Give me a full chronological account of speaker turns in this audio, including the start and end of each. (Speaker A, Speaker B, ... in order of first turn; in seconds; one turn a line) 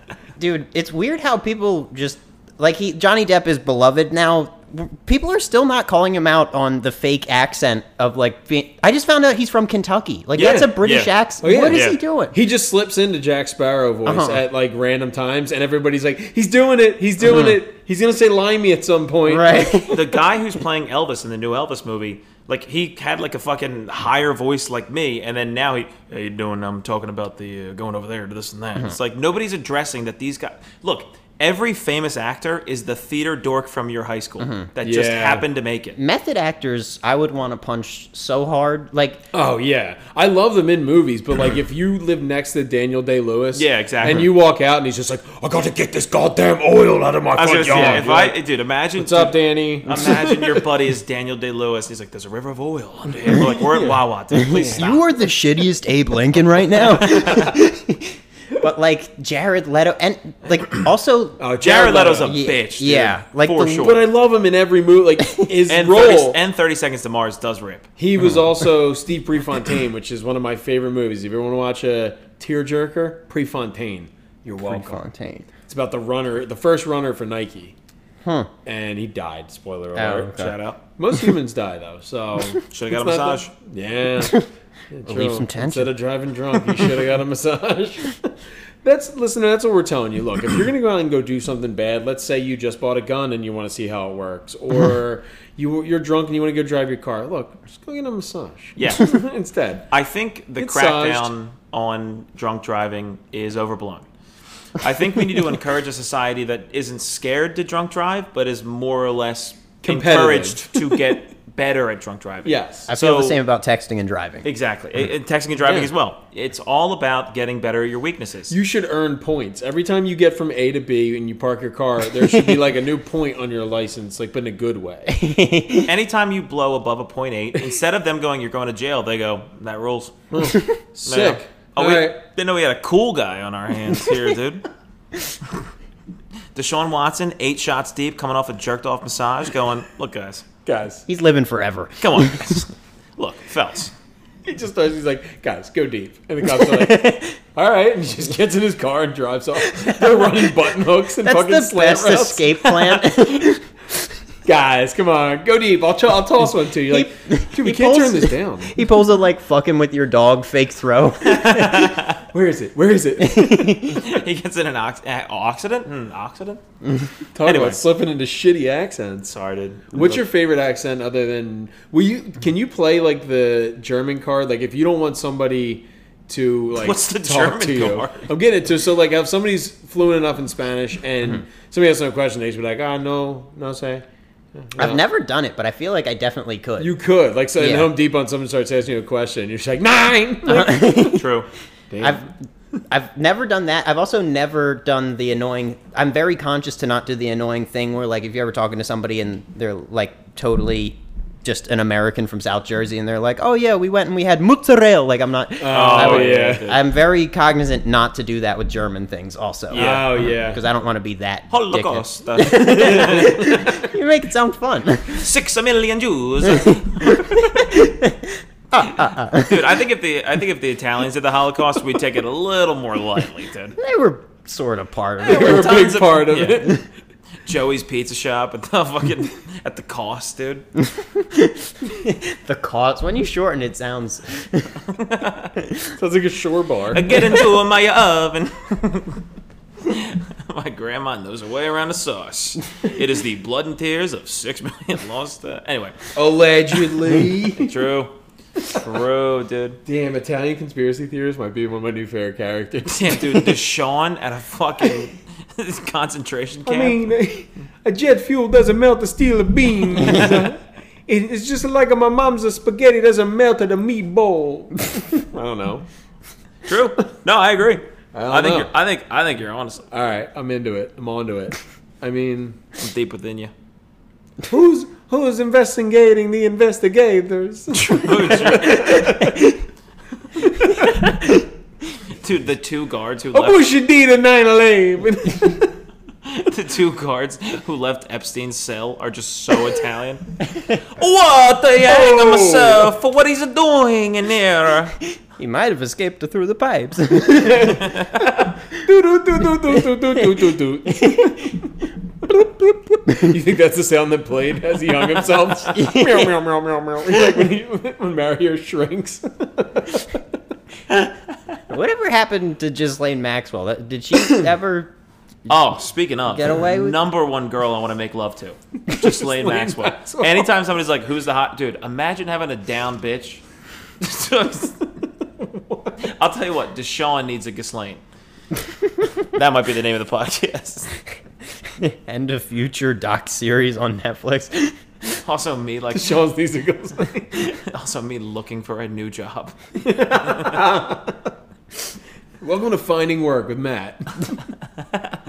Speaker A: 0.4-12.3
Speaker B: 10.3-11.1
Speaker C: 11.4-19.9
Speaker B: 11.7-12.0
Speaker A: 14.1-14.4
Speaker A: 17.2-17.6
Speaker A: 19.3-20.1
Speaker B: 19.9-36.0
Speaker C: 34.8-35.4
Speaker A: 36.0-39.2
Speaker C: 39.3-48.4
Speaker B: 43.5-44.3
Speaker B: 47.4-55.0
Speaker A: 47.7-48.1
Speaker C: 49.0-50.6
Speaker C: 53.4-54.9
Speaker A: 54.3-61.5
Speaker B: 56.7-57.6
Speaker C: 61.4-62.4
Speaker B: 61.6-64.0
Speaker A: 62.1-63.9
Speaker C: 63.8-66.4
Speaker B: 65.7-67.9
Speaker C: 68.0-75.0
Speaker A: 74.6-75.5
Speaker C: 75.7-77.7
Speaker A: 78.2-78.5
Speaker C: 78.6-80.3
Speaker A: 79.9-80.6
Speaker B: 80.3-80.8
Speaker C: 81.0-99.8
Speaker B: 82.7-83.5
Speaker A: 85.1-85.9
Speaker B: 98.8-99.2
Speaker B: 99.9-104.1
Speaker C: 100.6-101.3
Speaker B: 104.8-113.4
Speaker C: 109.8-111.2
Speaker C: 112.4-112.9
Speaker A: 112.9-114.5
Speaker B: 114.4-118.5
Speaker C: 118.5-125.2
Speaker A: 125.1-125.9
Speaker B: 125.8-130.1
Speaker C: 130.3-132.2
Speaker B: 131.0-134.7
Speaker B: 136.5-140.4
Speaker C: 140.6-141.0
Speaker A: 141.1-142.4
Speaker B: 142.0-143.9
Speaker C: 144.4-153.4
Speaker A: 146.5-147.3
Speaker A: 149.8-150.2
Speaker A: 151.2-153.6
Speaker C: 154.4-158.8
Speaker A: 156.9-161.9
Speaker B: 161.2-162.2
Speaker C: 162.3-163.8
Speaker A: 163.2-164.0
Speaker B: 163.8-166.6
Speaker C: 167.3-169.3
Speaker B: 167.4-167.8
Speaker B: 169.3-170.2
Speaker C: 169.9-184.0
Speaker B: 176.8-178.3
Speaker C: 184.5-185.0
Speaker A: 184.8-186.9
Speaker C: 186.8-191.0
Speaker A: 187.6-187.9
Speaker A: 190.4-191.3
Speaker B: 191.0-191.5
Speaker C: 191.9-192.3
Speaker A: 192.0-192.3
Speaker A: 192.9-215.3
Speaker C: 205.6-206.7
Speaker B: 205.7-206.8
Speaker B: 209.7-210.2
Speaker C: 209.7-210.6
Speaker B: 211.5-213.8
Speaker C: 213.1-213.4
Speaker B: 215.2-217.7
Speaker A: 216.5-219.7
Speaker B: 218.8-223.8
Speaker A: 223.8-225.8
Speaker C: 225.2-226.8
Speaker B: 225.2-226.7
Speaker B: 227.4-230.7
Speaker A: 230.9-234.8
Speaker B: 234.9-235.5
Speaker C: 235.9-237.1
Speaker B: 236.9-239.2
Speaker B: 239.8-246.2
Speaker C: 246.1-247.7
Speaker B: 246.9-248.1
Speaker B: 248.7-249.8
Speaker C: 249.8-253.6
Speaker B: 252.9-257.0
Speaker C: 256.6-265.8
Speaker B: 266.6-269.9
Speaker C: 268.1-268.7
Speaker C: 269.9-272.6
Speaker B: 272.8-273.5
Speaker C: 274.4-279.6
Speaker B: 277.8-279.1
Speaker C: 280.4-281.2
Speaker B: 282.1-283.7
Speaker C: 283.3-285.8
Speaker B: 286.2-290.4
Speaker B: 290.9-295.0
Speaker C: 291.8-292.9
Speaker A: 295.4-297.8
Speaker C: 297.3-297.9
Speaker B: 297.8-298.3
Speaker C: 298.7-301.7
Speaker A: 301.0-301.5
Speaker C: 302.2-310.2
Speaker A: 305.8-306.3
Speaker A: 311.7-314.9
Speaker B: 315.5-323.4
Speaker A: 316.3-317.0
Speaker C: 319.0-320.5
Speaker B: 324.0-325.0
Speaker C: 325.4-326.0
Speaker B: 326.0-328.0
Speaker B: 329.2-330.9
Speaker A: 331.8-334.8
Speaker B: 335.2-336.2
Speaker C: 335.9-337.4
Speaker B: 337.3-340.6
Speaker C: 339.8-341.3
Speaker C: 342.4-344.4